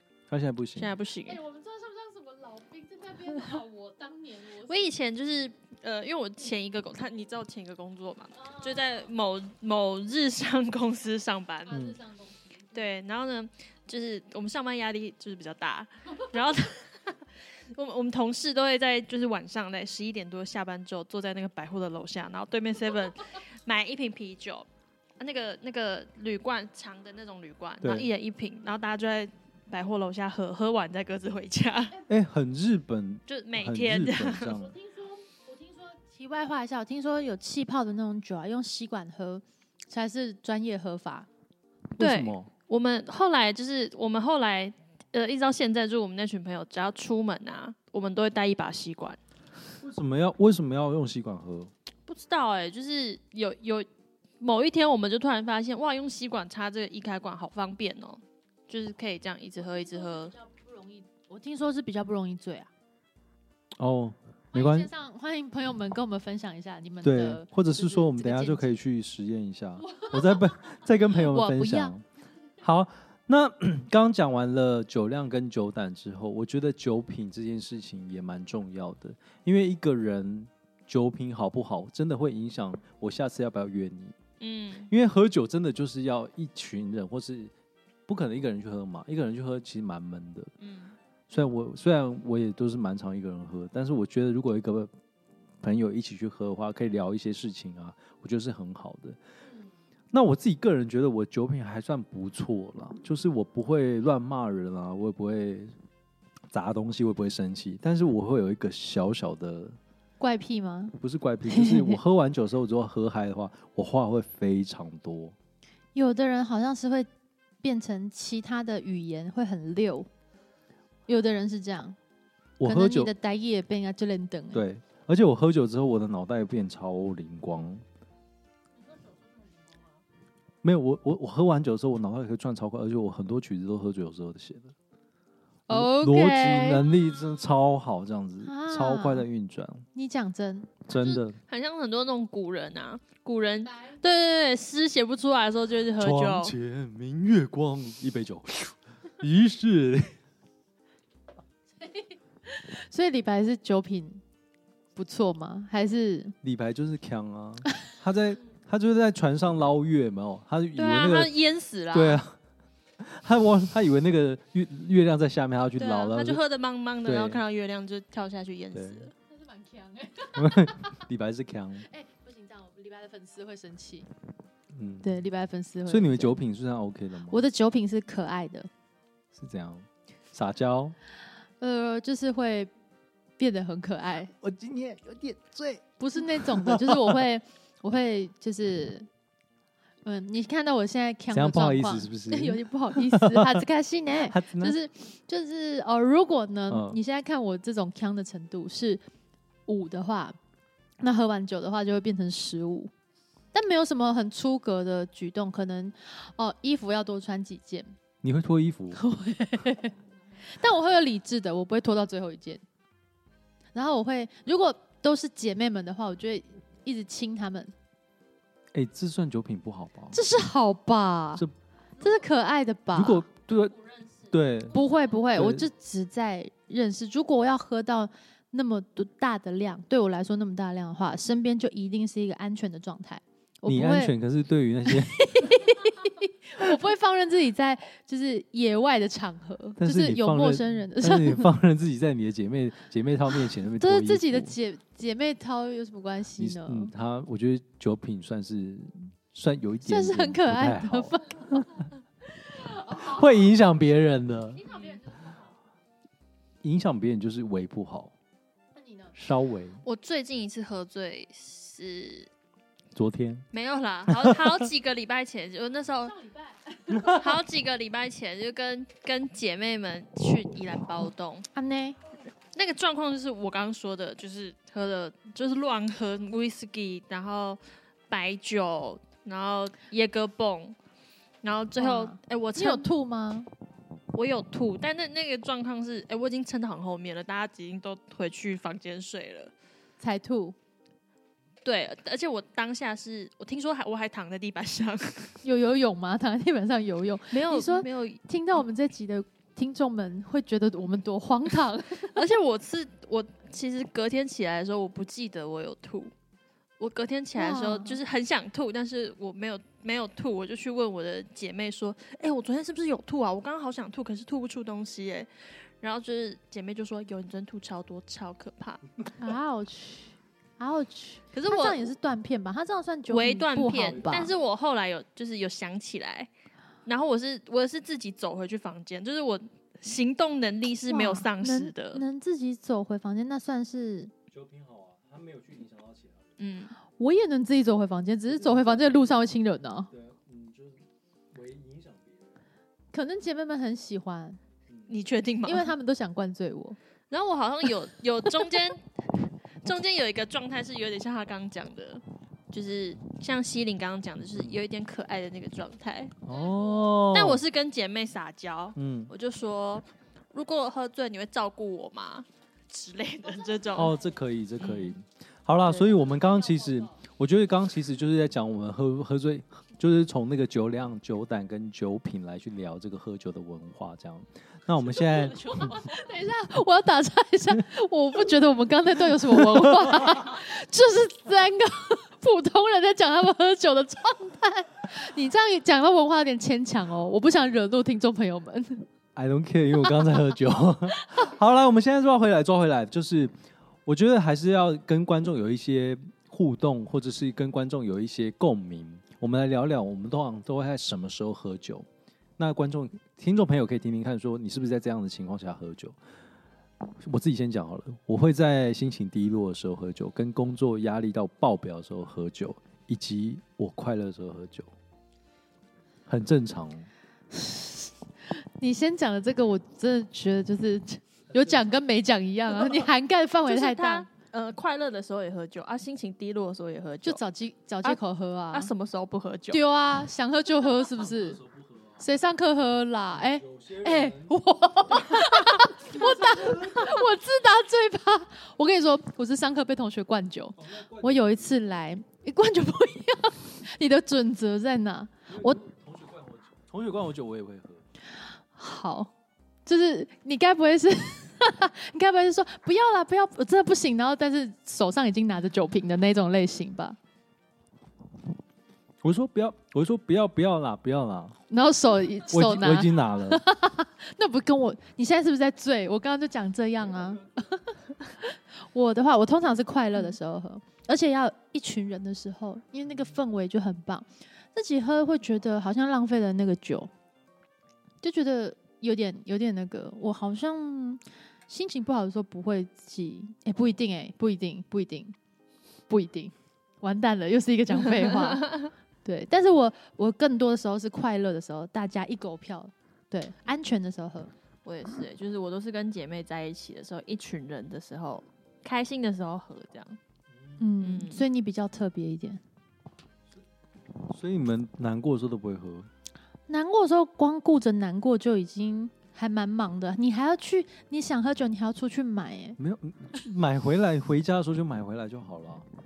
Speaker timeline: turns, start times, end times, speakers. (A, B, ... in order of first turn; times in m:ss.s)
0:00.3-0:01.0 A
0:00.8-0:01.4 B
0:01.3-0:04.9 C
0:04.6-0:11.8 B
0:08.4-0:09.0 C
0:11.7-0:12.8 C
0:11.7-0:12.0 A
0:12.7-0:24.7 B
0:25.2-0:32.0 B
0:27.8-0:28.1 A
0:32.1-0:34.7 A
0:33.3-0:34.6 B
0:34.6-0:41.3 C
0:42.0-0:42.5 A
0:42.0-0:49.2 B
0:49.8-0:51.7 A
0:52.1-0:53.9 B
0:54.4-1:00.3 B
0:59.6-1:02.7 C
1:03.8-1:04.9 A
1:04.5-1:08.8 C
1:07.0-1:12.0 A
1:09.9-1:10.4 C
1:11.1-1:12.0 C
1:12.6-1:24.2 A
1:24.4-1:24.9 B
1:24.9-1:27.5 A
1:28.1-1:30.5 A
1:30.6-1:31.0 B
1:31.3-1:34.9 A
1:35.6-1:39.2 A
1:40.1-1:45.7 A
1:46.5-1:49.8 A
1:50.2-1:51.0 C
1:51.0-1:55.4 A
1:51.5-1:52.0 C
1:56.0-1:57.1 C
1:57.6-2:00.1 C
2:01.1-2:02.0 C
2:02.6-2:03.1 A
2:02.6-2:04.6 C
2:04.5-2:07.8 A
2:10.6-2:14.7 A
2:15.7-2:19.9 A
2:15.7-2:16.8 C
2:18.4-2:19.3 C
2:19.9-2:20.8 C
2:20.9-2:21.4 A
2:20.9-2:26.6 B
2:23.7-2:24.0 C
2:26.0-2:30.2 A
2:31.8-2:34.2 C
2:35.0-2:36.4 C
2:36.4-2:41.3 A
2:40.8-2:42.2 B
2:41.9-2:42.4 A
2:43.0-2:46.4 A
2:45.8-2:49.1 B
2:47.0-2:47.4 A
2:48.7-2:49.1 A
2:49.3-2:51.0 C
2:50.4-2:51.9 A
2:51.8-2:54.1 C
2:54.7-2:55.2 A
2:55.0-2:56.4 C
2:55.9-2:57.5 A
2:57.3-2:58.7 C
2:59.3-3:01.0 A
3:01.6-3:02.7 C
3:03.4-3:04.3 C
3:04.4-3:07.2 A
3:06.0-3:09.1 C
3:10.0-3:19.0 C
3:11.3-3:13.6 A
3:14.2-3:14.8 A
3:16.7-3:17.0 A
3:19.7-3:20.4 C
3:21.0-3:22.9 C
3:23.5-3:27.9 C
3:28.2-3:29.0 A
3:28.9-3:30.0 C
3:30.5-3:32.6 C
3:33.7-3:37.7 C
3:38.7-3:40.2 A
3:40.1-3:41.4 C
3:42.0-3:43.3 C
3:42.9-3:44.8 A
3:44.7-3:54.2 C
3:45.3-3:45.7 A
3:53.7-3:55.7 A
3:54.9-4:01.5 C
3:59.8-4:04.6 A
4:03.8-4:06.9 C
4:06.4-4:11.8 A
4:09.8-4:11.8 C
4:12.6-4:13.3 C
4:12.9-4:14.7 A
4:14.6-4:15.4 C
4:16.6-4:18.1 A
4:18.8-4:19.1 C
4:19.2-4:19.8 A
4:19.8-4:22.3 B
4:23.0-4:23.5 A
4:23.5-4:26.2 B
4:24.1-4:24.7 A
4:26.1-4:27.3 C
4:27.0-4:31.5 B
4:31.5-4:32.0 C
4:32.5-4:40.8 B
4:41.4-4:42.9 B
4:41.8-4:43.5 C
4:44.1-4:49.5 B
4:50.0-4:50.6 C
4:51.6-4:55.4 B
4:55.4-5:02.2 C
4:57.3-4:58.2 B
5:02.0-5:06.1 B
5:06.8-5:18.8 B
5:07.4-5:08.0 C
5:19.2-5:24.3 C
5:21.3-5:21.9 B
5:23.1-5:26.3 B
5:26.9-5:32.0 B
5:30.9-5:34.1 C
5:34.3-5:36.3 A
5:36.4-5:36.8 B
5:37.0-5:39.9 C
5:38.3-5:39.1 A
5:39.9-5:42.4 A
5:42.9-5:44.4 C
5:44.9-5:45.8 B
5:45.4-5:46.8 C
5:47.1-5:48.9 B
5:49.6-5:56.2 B
5:56.2-5:57.4 A
5:57.1-6:03.9 B
5:58.8-5:59.1 A
6:03.6-6:03.9 C
6:03.8-6:15.8 A
6:04.6-6:04.9 B
6:05.9-6:06.9 C
6:15.0-6:15.8 B
6:15.4-6:28.9 C
6:19.3-6:20.0 A
6:29.2-6:33.3 A
6:30.9-6:31.2 C
6:33.9-6:41.9 A
6:42.4-6:46.0 A
6:46.9-6:54.7 A
6:56.1-6:56.9 A
6:57.3-7:04.1 C
7:03.5-7:07.2 B
7:07.0-7:08.7 C
7:08.5-7:09.6 B
7:09.5-7:11.4 C
7:10.9-7:12.0 A
7:12.0-7:25.6 C
7:13.2-7:14.4 A
7:14.9-7:17.0 A
7:20.6-7:21.6 A
7:25.3-7:27.8 A
7:28.5-7:29.1 C
7:29.7-7:37.0 C
7:39.0-7:41.4 A
7:41.5-7:56.9 C
7:42.3-7:43.4 A
7:58.0-8:05.2 C
8:05.9-8:14.3 C
8:08.3-8:08.6 B
8:14.6-8:20.0 B
8:20.6-8:22.4 C
8:20.8-8:21.2 B
8:24.1-8:25.9 A
8:26.5-8:32.6 C
8:32.6-8:35.7 A